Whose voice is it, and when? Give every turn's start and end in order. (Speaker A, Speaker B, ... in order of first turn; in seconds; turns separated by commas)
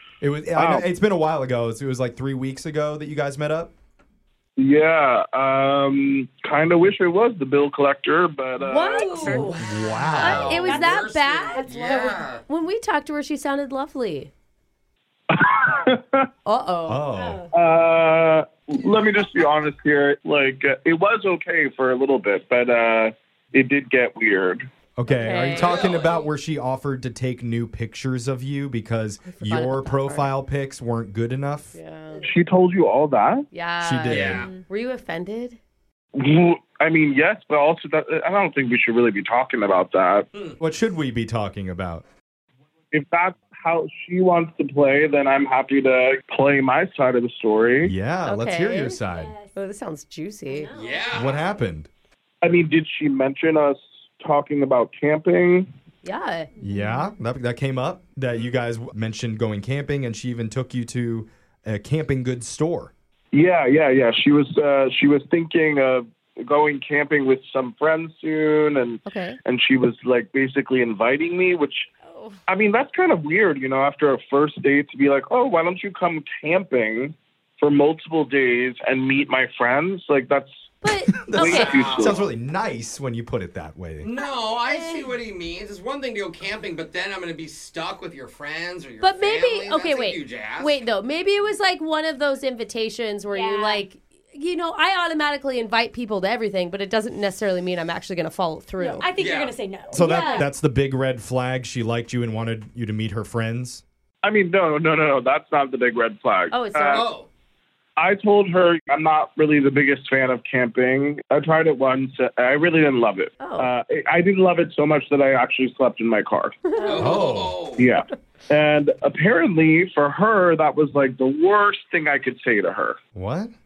Speaker A: 0.2-3.7, Speaker B: 0.5-0.8, Speaker B: 4.6-9.6, Speaker C: 8.7-9.6, Speaker D: 8.8-9.6, Speaker A: 9.6-10.7, Speaker E: 9.9-12.4, Speaker C: 10.2-14.3, Speaker D: 10.5-12.2, Speaker B: 15.3-16.3, Speaker C: 16.4-17.1, Speaker A: 16.9-17.4, Speaker D: 17.1-17.5, Speaker B: 17.5-24.7, Speaker A: 25.0-31.8, Speaker C: 25.1-25.8, Speaker E: 25.5-26.3, Speaker C: 29.3-30.3, Speaker C: 31.7-32.3, Speaker B: 32.2-33.5, Speaker C: 33.5-35.6, Speaker A: 33.8-34.5, Speaker E: 34.1-34.5, Speaker B: 36.2-40.3, Speaker A: 40.6-42.0, Speaker B: 42.9-47.9, Speaker A: 47.8-49.3, Speaker C: 48.2-49.0, Speaker D: 49.0-49.5, Speaker C: 49.5-50.7, Speaker D: 50.5-51.2, Speaker E: 50.7-51.4, Speaker A: 51.1-51.9, Speaker B: 52.4-55.7, Speaker C: 56.0-56.5, Speaker A: 56.6-62.9, Speaker B: 63.3-71.9, Speaker C: 69.1-69.4, Speaker D: 72.1-72.4, Speaker B: 72.5-80.7, Speaker C: 80.8-81.7, Speaker A: 81.2-84.1, Speaker B: 81.3-82.2, Speaker E: 81.4-82.3, Speaker E: 84.0-90.8, Speaker D: 84.6-85.2, Speaker C: 89.0-99.1, Speaker D: 93.3-93.8, Speaker D: 98.8-100.5, Speaker E: 99.2-99.6, Speaker A: 99.9-103.8, Speaker B: 104.2-107.0, Speaker C: 106.5-107.1, Speaker E: 106.9-107.3, Speaker B: 108.0-116.6, Speaker C: 113.4-113.7, Speaker C: 116.8-117.2, Speaker E: 116.8-117.9, Speaker A: 116.9-117.6, Speaker B: 117.8-123.0, Speaker A: 123.2-123.5